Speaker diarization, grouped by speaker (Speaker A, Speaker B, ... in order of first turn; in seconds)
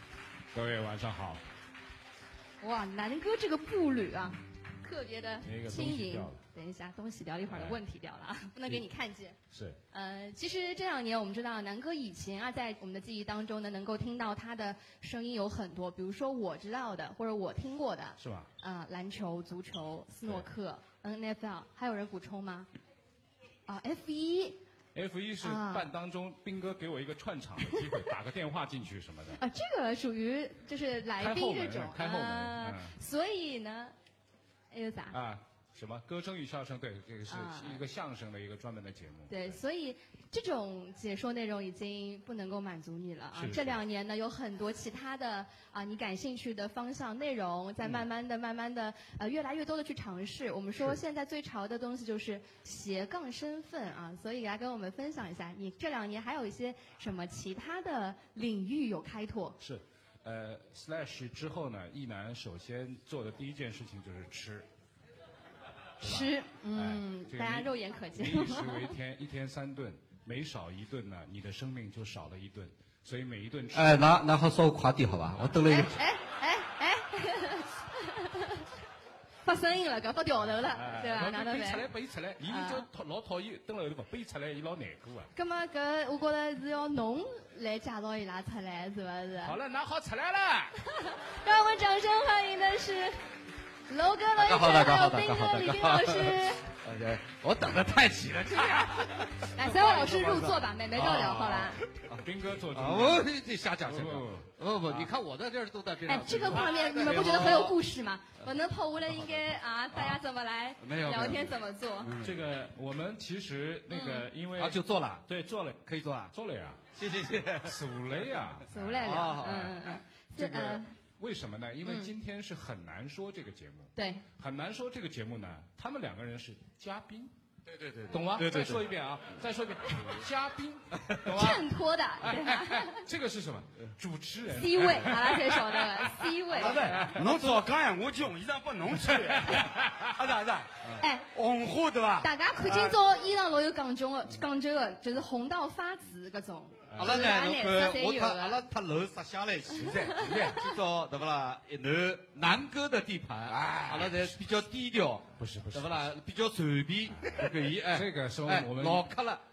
Speaker A: 0.5-1.4, 5.4-6.4, 7.5-7.8, 9.5-9.8, 18.2-18.5, 24.9-29.4, 31.2-32.9, 35.1-39.6, 43.3-43.8, 59.6-64.7, 66.0-74.1, 80.5-85.3, 89.4-90.8, 102.2-103.3, 103.8-105.1, 112.2-116.8, 117.6-119.5, 120.4-127.3, 128.1-137.6, 139.0-140.1, 146.9-147.2, 155.4-156.1, 157.1-159.1
Speaker B: 2.6-9.4, 9.9-22.7, 23.7-24.6, 25.4-25.9, 29.4-33.9, 34.7-35.2, 37.3-37.8, 39.3-59.6, 66.0-68.9, 75.7-78.6, 79.4-81.9, 82.4-82.8, 85.3-89.6, 91.0-93.2, 93.9-96.6, 99.5-101.8, 106.1-112.1, 113.9-114.2, 118.7-120.9, 121.8-122.1, 124.0-124.2, 131.2-133.0, 134.5-136.9, 141.0-141.3, 142.2-148.7
Speaker C: 73.7-76.0, 94.3-107.8, 110.8-112.4, 114.5-115.3, 115.8-116.3, 116.9-117.8, 119.0-119.8, 127.7-128.8, 136.6-137.1, 146.9-159.4
Speaker D: 136.5-143.0, 149.8-150.5, 153.5-154.1